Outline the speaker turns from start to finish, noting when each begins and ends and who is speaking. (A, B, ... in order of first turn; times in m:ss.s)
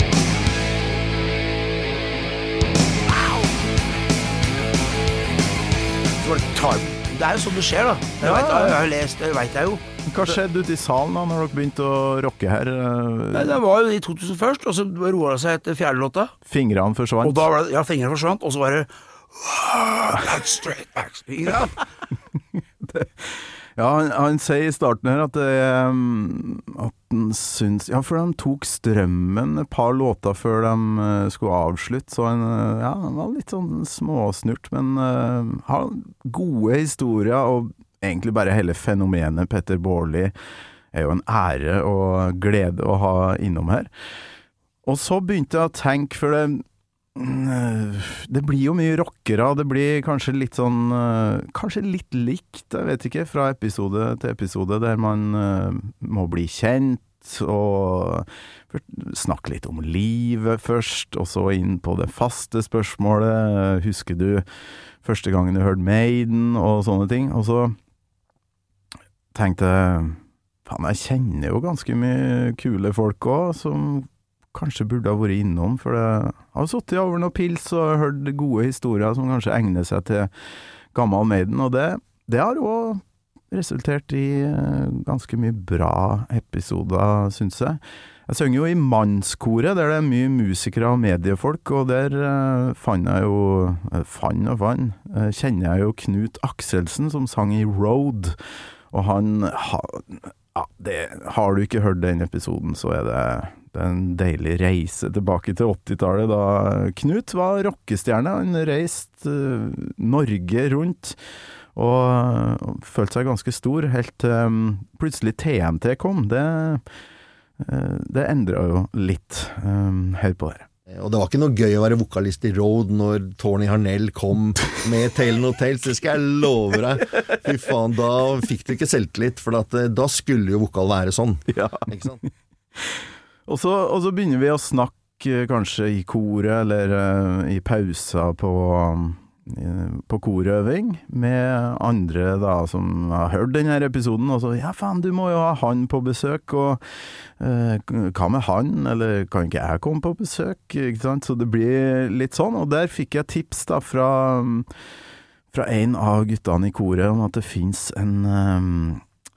0:03.1-0:03.5 A
0:06.2-0:10.4 A
0:08.2-0:08.8 B
0:10.1-0:13.6 B
0:13.3-0:16.3 A
0:16.4-0:17.5 B
0:17.2-0:21.8 A
0:22.8-0:40.4 B
0:40.9-0:43.9 B
0:44.8-0:46.6 B
0:47.2-1:04.4 B
1:05.0-1:07.8 B
1:09.3-1:20.3 B
1:20.9-1:38.4 B
1:38.9-1:51.2 B
1:51.8-1:56.8 B
1:57.6-2:00.7 B
2:00.9-2:12.2 C
2:12.8-2:26.8 B
2:27.4-2:34.7 B
2:35.5-2:39.0 B